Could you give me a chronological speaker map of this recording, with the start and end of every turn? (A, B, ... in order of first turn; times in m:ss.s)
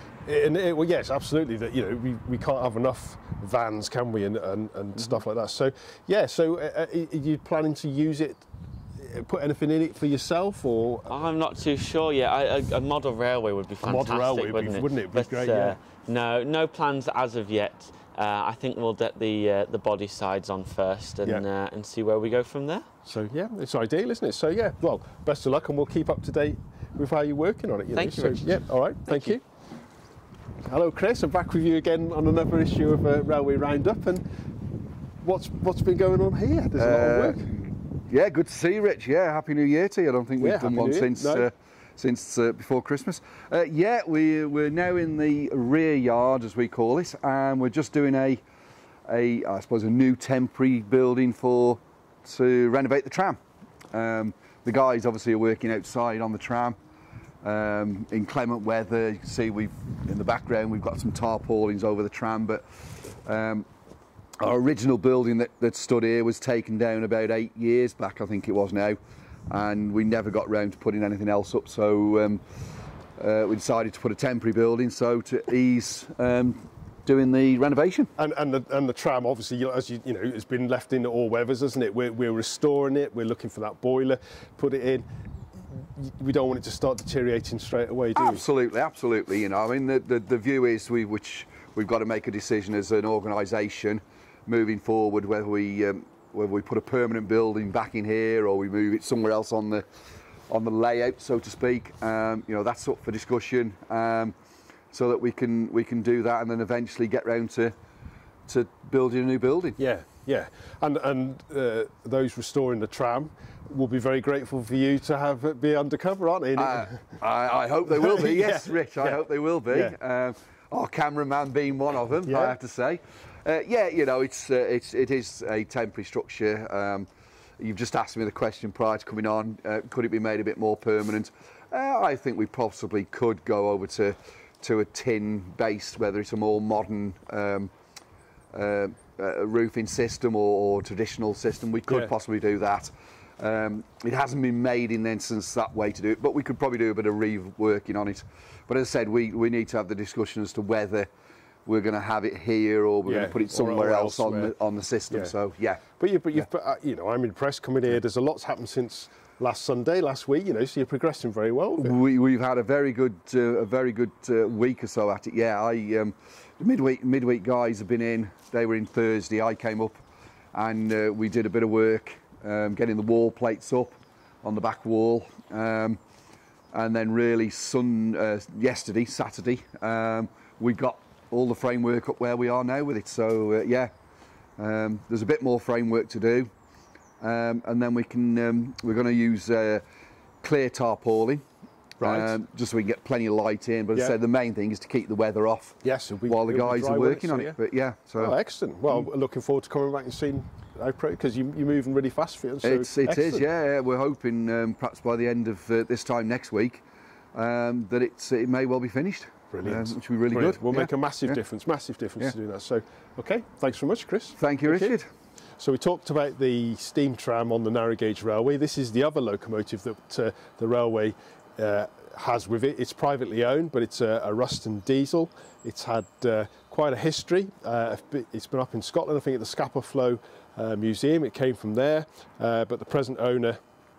0:00.2-0:11.2 A
0:11.1-0:22.9 B
0:13.8-0:15.8 A
0:23.1-0:29.4 A
0:27.9-0:29.4 B
0:30.6-0:34.2 A
0:35.2-0:37.5 A
0:36.8-0:48.4 C
0:40.4-0:41.5 A
0:49.1-0:56.8 C
0:57.4-1:03.7 C
1:04.4-1:12.4 C
1:13.2-1:18.1 C
1:18.2-1:28.4 A
1:28.2-1:39.9 C
1:40.5-1:44.4 C
1:44.9-1:47.8 C
1:48.5-1:49.8 C
1:49.8-1:57.2 A
1:56.6-2:17.7 C
1:57.9-2:00.0 A
2:02.3-2:02.6 A
2:18.5-2:31.1 C
2:31.6-2:35.8 C
2:33.0-2:34.5 A
2:35.1-2:35.3 A
2:36.0-2:42.0 A
2:41.8-2:50.0 C
2:50.5-2:56.0 C
2:56.7-3:03.9 C
3:04.6-3:06.5 C
3:07.2-3:09.8 C
3:10.4-3:11.4 C
3:12.0-3:18.4 C
3:12.0-3:12.4 A
3:15.8-3:17.6 A
3:18.2-3:23.4 A
3:22.6-3:31.4 C
3:29.5-3:35.0 A
3:34.4-3:35.1 C
3:35.6-3:53.6 A